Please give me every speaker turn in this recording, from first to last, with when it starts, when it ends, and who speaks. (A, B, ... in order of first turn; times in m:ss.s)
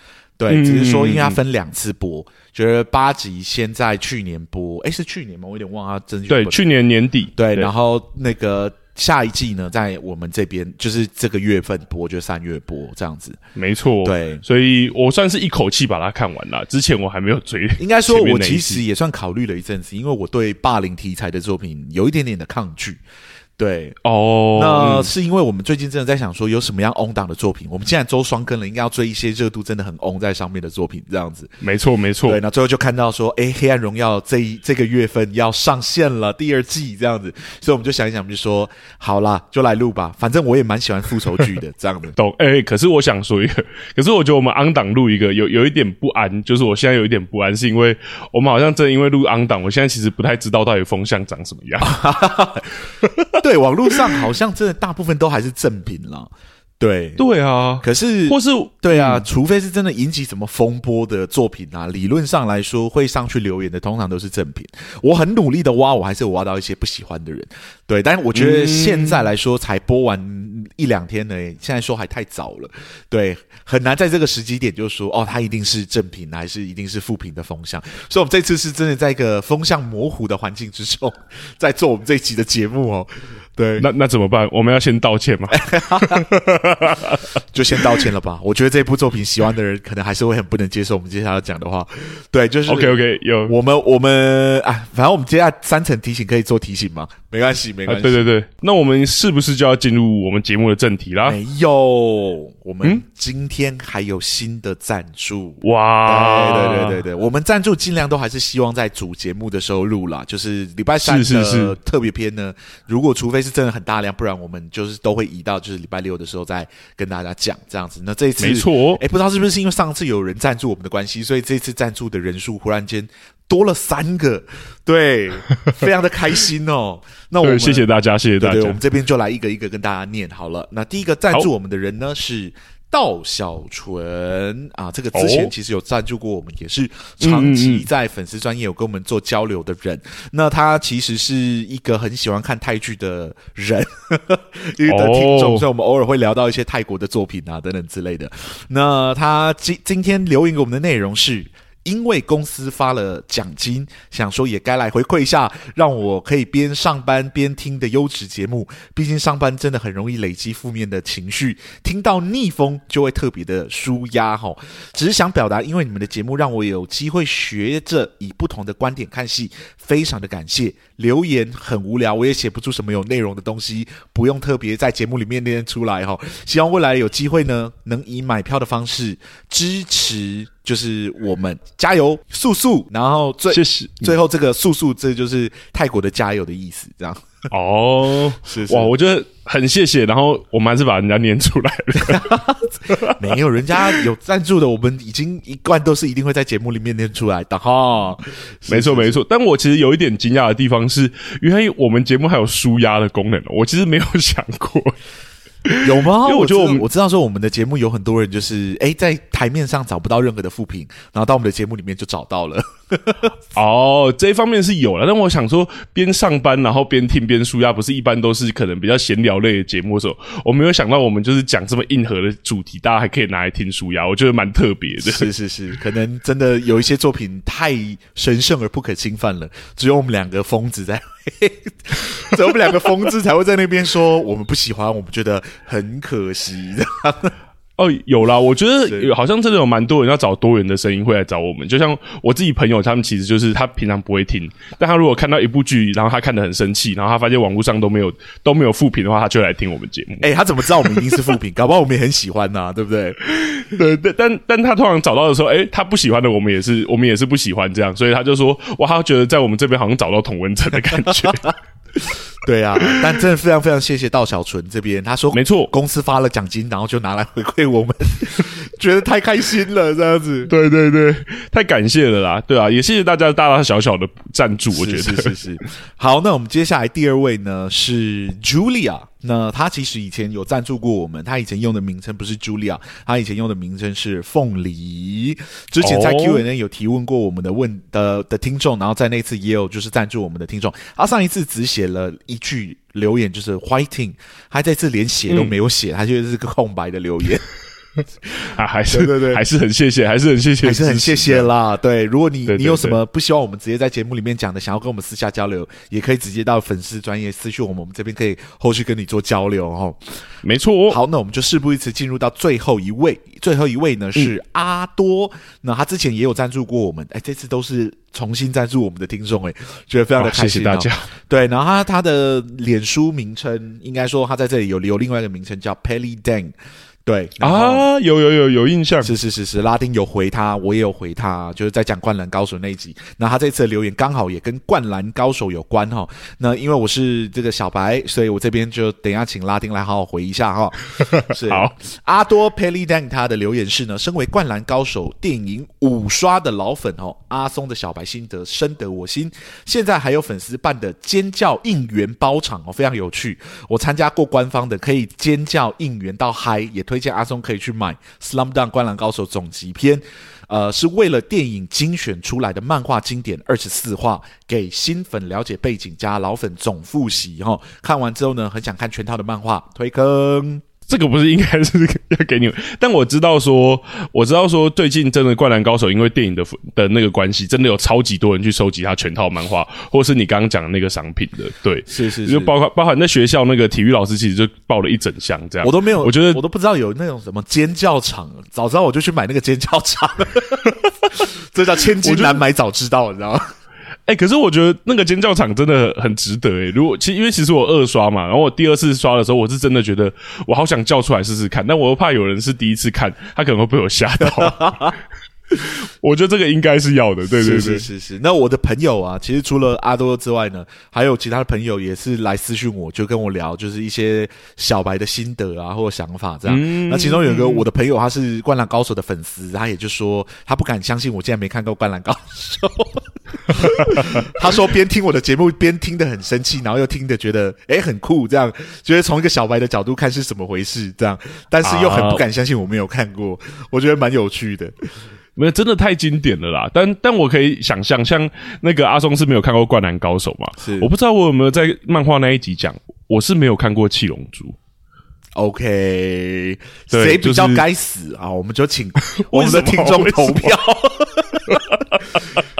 0:00.4-0:06.6 A
0:00.5-0:01.4 B
0:06.3-0:07.7 B
0:07.4-0:13.4 A
0:13.6-0:18.8 B
0:14.0-0:14.4 A
0:17.8-0:23.0 A
0:23.6-0:24.0 A
0:24.0-0:25.1 B
0:24.5-0:31.5 A
0:31.6-0:32.4 B
0:32.3-0:42.2 A
0:42.2-0:52.0 B
0:51.8-0:52.9 A
0:53.4-0:57.2 A
0:53.9-0:54.2 B
0:57.2-0:59.2 B
0:57.8-1:23.9 A
1:08.3-1:09.2 B
1:23.8-1:27.2 B
1:25.5-1:26.3 A
1:27.5-1:38.2 A
1:27.8-1:28.1 B
1:32.7-1:33.5 B
1:37.8-1:41.4 B
1:41.2-2:07.8 A
1:45.6-1:47.0 B
1:51.0-1:51.7 B
1:58.4-1:59.0 B
2:07.4-2:08.8 B
2:08.4-3:07.2 A
2:15.1-2:15.5 B
2:17.2-2:17.8 B
2:24.9-2:25.6 B
3:03.5-3:04.1 B
3:07.5-3:12.3 B
3:08.4-3:08.9 A
3:12.0-3:19.2 A
3:12.9-3:13.2 B
3:13.7-3:14.0 B
3:18.7-3:25.0 B
3:25.6-3:26.8 B
3:25.8-3:33.3 A
3:33.5-3:45.3 B
3:45.0-3:57.3 A
3:57.8-4:11.2 B
4:10.2-4:13.2 A
4:13.3-4:21.4 B
4:21.2-4:30.5 A
4:22.8-4:23.2 B
4:25.3-4:25.7 B
4:30.5-4:35.4 B
4:34.7-4:57.4 A
4:45.8-4:46.4 B
4:55.3-4:55.5 B
4:58.4-4:59.4 A
4:58.5-5:01.5 B
5:00.6-5:10.3 A
5:02.5-5:03.0 B
5:10.4-5:11.0 B
5:10.9-5:26.5 A
5:20.2-5:21.1 B
5:27.0-5:27.9 A
5:27.4-5:29.1 B
5:29.0-6:10.6 A
5:41.2-5:41.7 B
6:10.9-6:26.4 B
6:21.9-6:22.5 A
6:25.6-6:33.5 A
6:32.0-6:32.4 B
6:34.0-6:45.0 B
6:44.2-6:45.0 A
6:45.6-6:47.9 B
6:47.3-7:14.7 A
6:56.4-6:57.6 B
7:03.6-7:04.2 B
7:11.6-7:12.2 B
7:15.4-7:24.6 B
7:20.6-7:20.9 A
7:25.4-7:31.5 A
7:26.9-7:27.6 B
7:29.2-7:30.6 B
7:31.5-7:32.4 B